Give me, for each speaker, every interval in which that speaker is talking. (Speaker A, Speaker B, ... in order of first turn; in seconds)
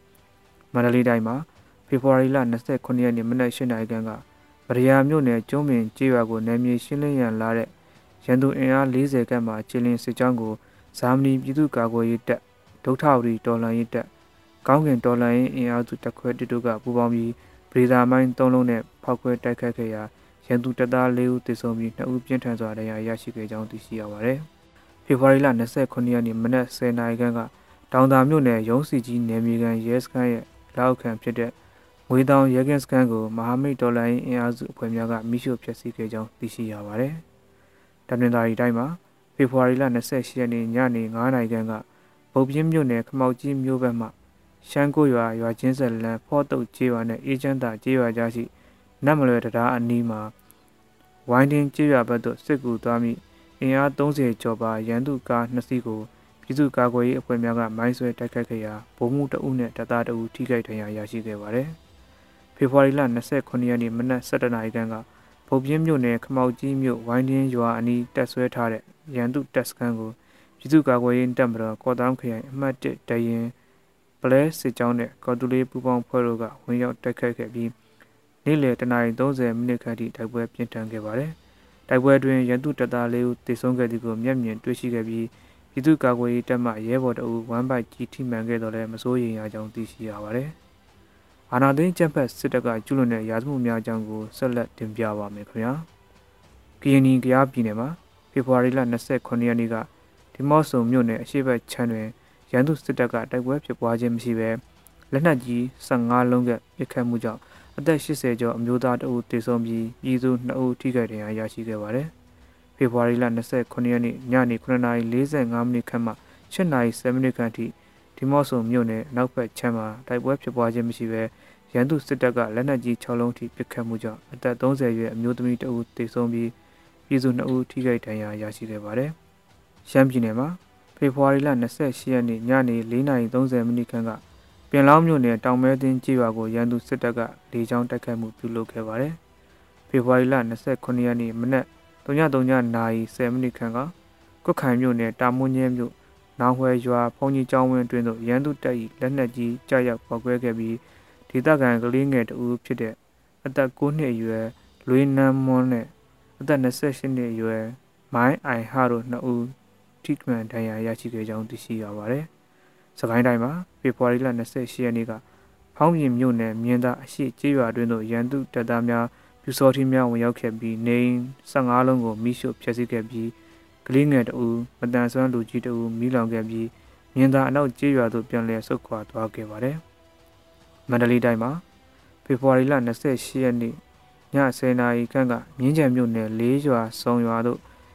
Speaker A: 0.7-7.7, 8.2-14.1, 14.7-24.4, 25.1-31.5, 32.1-37.2, 38.1-44.1, 44.6-48.5, 49.0-50.3, 51.3-61.8, 62.6-73.5, 74.2-77.7, 78.5-81.3, 81.9-90.5, 91.5-95.9, 96.8-112.1, 112.8-126.5, 127.1-129.2, 129.8-134.2, 134.7-139.2, 139.9-143.9, 144.4-162.3, 163.0-165.2, 165.8-173.3, 173.8-179.8, 180.9-181.6, 182.2-183.8, 184.3-187.6